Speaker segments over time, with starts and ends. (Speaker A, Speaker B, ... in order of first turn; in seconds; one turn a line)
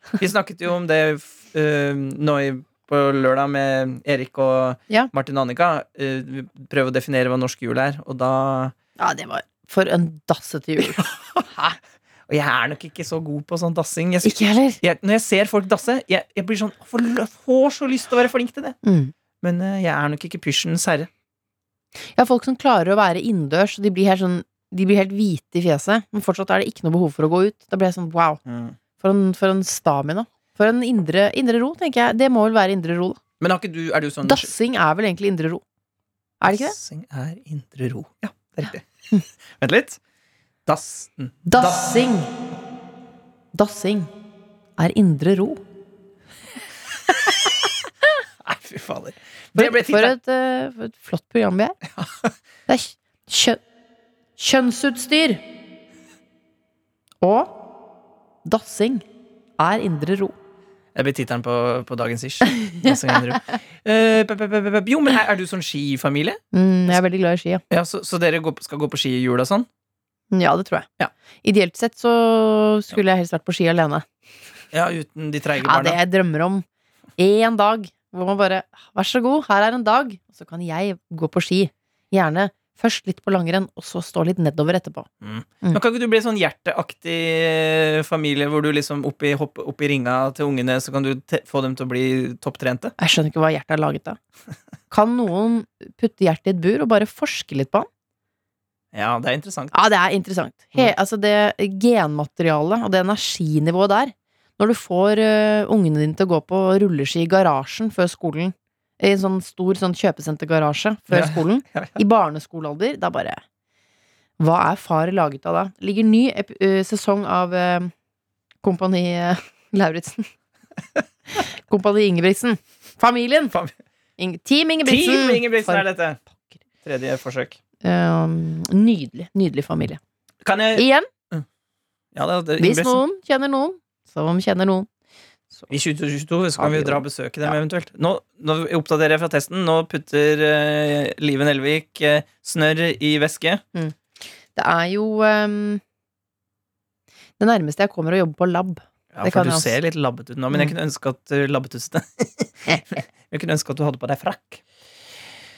Speaker A: 0.2-8.7
Speaker B: 9.0-11.8
Speaker A: 10.9-11.4
Speaker A: 12.3-18.8
Speaker B: 14.2-14.8
Speaker B: 18.8-19.1
Speaker A: 19.4-21.1
Speaker B: 22.1-28.4
Speaker A: 28.4-28.8
Speaker B: 29.0-33.2
Speaker A: 33.4-34.5
Speaker B: 34.2-35.6
Speaker B: 36.4-36.8
Speaker A: 36.4-38.9
Speaker A: 39.6-40.0
Speaker A: 40.6-41.9
Speaker B: 41.5-42.3
Speaker B: 43.5-44.1
Speaker B: 44.8-45.6
Speaker A: 48.4-50.1
Speaker B: 49.5-51.8
Speaker A: 52.0-52.3
Speaker B: 52.7-53.6
Speaker B: 54.4-55.4
Speaker B: 57.2-57.5
Speaker B: 58.4-59.0
Speaker B: 59.6-60.3
Speaker A: 60.9-66.4
Speaker B: 66.5-67.6
Speaker A: 67.7-69.7
Speaker B: 70.3-70.9
Speaker B: 71.4-74.0
Speaker A: 74.7-76.0
Speaker B: 75.6-76.6
Speaker B: 77.2-85.1
Speaker A: 85.2-92.9
Speaker B: 93.0-94.2
Speaker B: 94.9-97.9
Speaker A: 98.9-99.7
Speaker B: 99.7-113.4
Speaker A: 111.1-112.0
Speaker B: 114.4-117.9
Speaker B: 118.6-120.2
Speaker B: 121.3-123.5
Speaker B: 124.2-125.9
Speaker A: 124.8-126.2
Speaker A: 126.8-127.6
Speaker B: 127.8-130.0
Speaker A: 130.4-131.4
Speaker B: 130.7-131.1
Speaker A: 132.1-133.0
Speaker B: 132.6-134.9
Speaker A: 135.7-143.6
Speaker B: 136.6-137.5
Speaker B: 144.5-145.8
Speaker B: 147.4-149.8
Speaker A: 149.1-152.6
Speaker B: 152.7-153.0
Speaker A: 153.2-154.6